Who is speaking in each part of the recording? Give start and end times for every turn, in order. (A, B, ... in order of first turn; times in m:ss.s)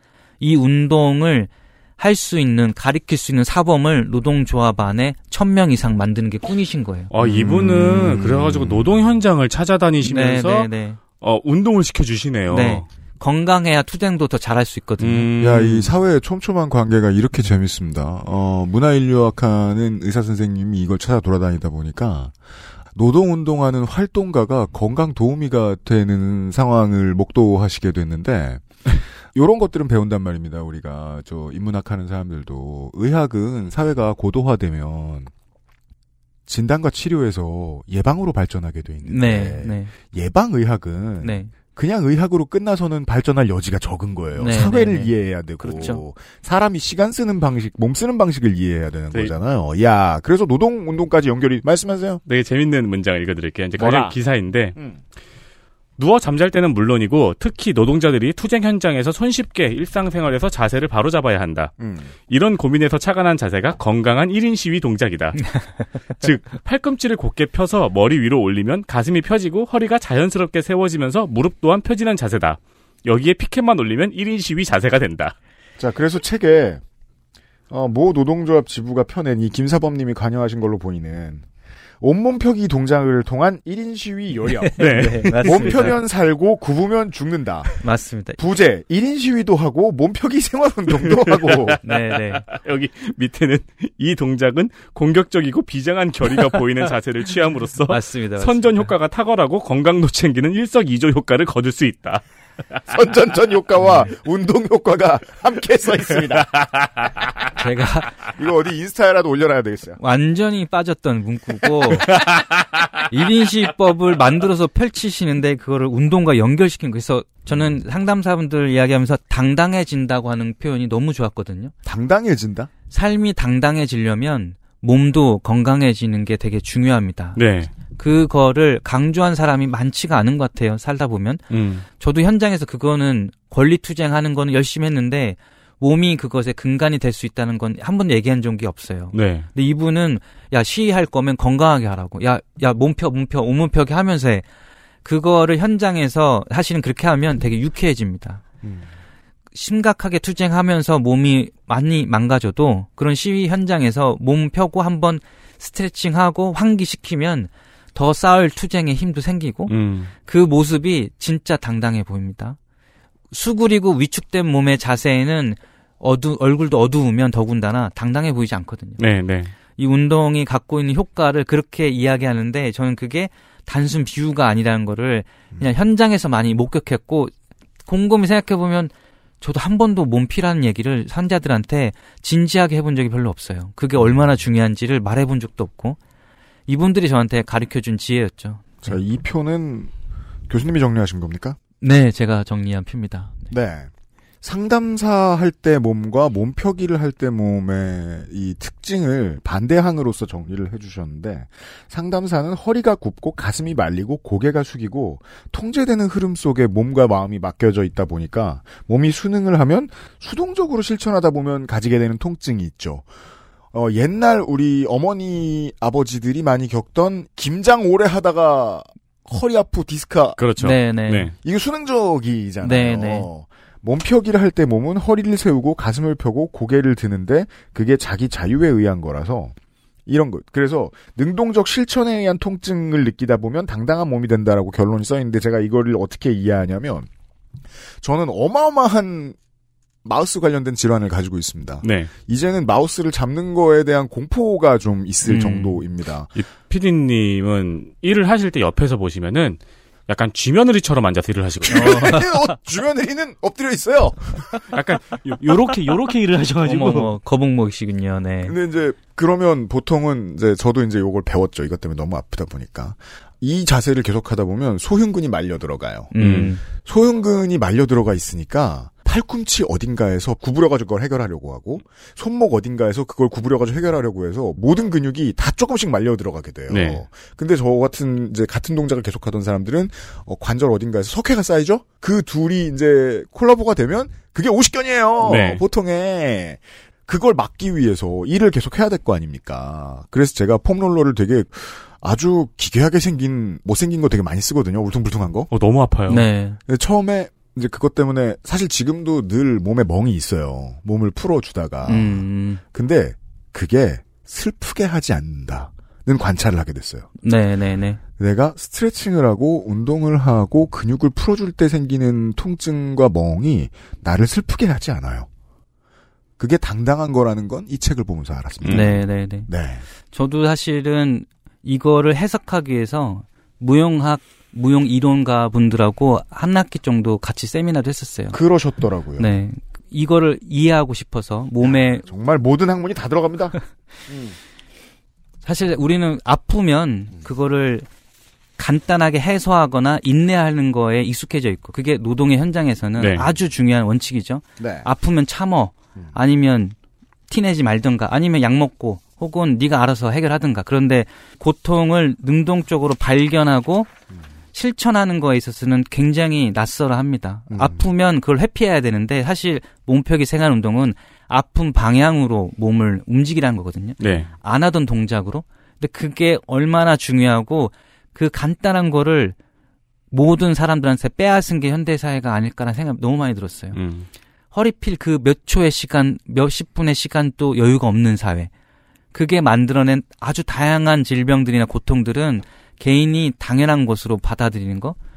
0:00.4-0:07.1 A
0:07.1-0:10.7 B
0:07.2-0:09.0 C
0:10.0-0:11.0 A
0:11.2-0:12.9 B
0:12.5-0:15.3 A
0:15.0-0:15.9 B
0:15.4-0:22.3 C
0:22.9-0:35.3 C
0:36.4-0:52.2 C
0:39.1-0:39.9 A
0:41.2-0:41.5 A
0:44.4-0:46.0 A
0:52.2-0:54.8 B
0:53.8-0:54.2 C
0:54.7-0:55.0 C
0:56.0-1:01.7 B
1:01.8-1:02.1 C
1:02.3-1:05.5 B
1:06.2-1:15.3 B
1:15.8-1:16.8 C
1:17.7-1:21.4 C
1:22.0-1:27.8 C
1:24.6-1:26.0 A
1:24.8-1:25.8 B
1:27.8-1:28.4 A
1:28.4-1:31.8 C
1:31.0-1:42.2 B
1:31.8-1:32.4 A
1:37.9-1:38.9 A
1:42.9-1:46.7 C
1:47.5-1:48.1 A
1:48.2-1:50.0 C
1:50.0-1:52.2 A
1:53.1-2:01.7 A
2:01.8-2:02.7 C
2:02.9-2:07.4 A
2:07.4-2:07.7 B
2:07.9-2:11.4 A
2:11.5-2:11.8 B
2:12.0-2:24.4 A
2:19.1-2:19.5 B
2:25.0-2:28.4 A
2:28.6-2:28.9 C
2:29.5-2:42.6 A
2:39.7-2:40.1 B
2:43.3-2:49.0 A
2:49.0-2:49.5 B
2:49.8-2:57.3 A
2:57.8-3:06.0 A
3:06.7-3:09.0 A
3:08.8-3:09.9 C
3:10.5-3:11.6 C
3:11.8-3:13.4 A
3:13.5-3:13.9 C
3:14.4-3:33.1 C
3:33.7-3:40.4 C
3:40.4-3:41.3 B
3:40.6-3:41.3 A
3:41.4-3:49.5 C
3:42.6-3:43.3 A
3:50.0-3:57.1 C
3:58.0-3:59.4 C
4:00.0-4:06.3 C
4:01.8-4:02.1 B
4:05.2-4:05.8 A
4:06.4-4:12.2 B
4:11.6-4:14.6 C
4:11.7-4:12.4 A
4:14.7-4:17.1 B
4:16.6-4:18.5 A
4:18.4-4:26.1 C
4:26.1-4:26.6 A
4:26.2-4:26.5 B
4:26.6-4:55.5 C
4:36.7-4:37.0 B
4:45.2-4:45.6 B
4:55.5-4:56.3 B
4:56.1-4:56.6 A
4:56.7-5:07.1 C
5:01.9-5:02.6 A
5:07.2-5:08.0 A
5:08.2-5:15.3 C
5:16.4-5:19.8 C
5:18.6-5:19.0 B
5:18.7-5:19.5 A
5:20.1-5:28.4 A
5:28.3-5:29.3 C
5:29.2-5:32.0 A
5:31.6-5:34.4 C
5:35.4-5:37.9 A
5:38.6-5:46.7 A
5:43.0-5:43.2 B
5:44.6-5:44.9 C
5:47.3-5:53.9 A
5:54.5-6:09.4 A
5:57.5-5:57.9 C
6:04.0-6:04.3 B
6:10.1-6:13.8 A
6:13.7-6:14.1 B
6:14.5-6:18.5 A
6:19.1-6:25.0 A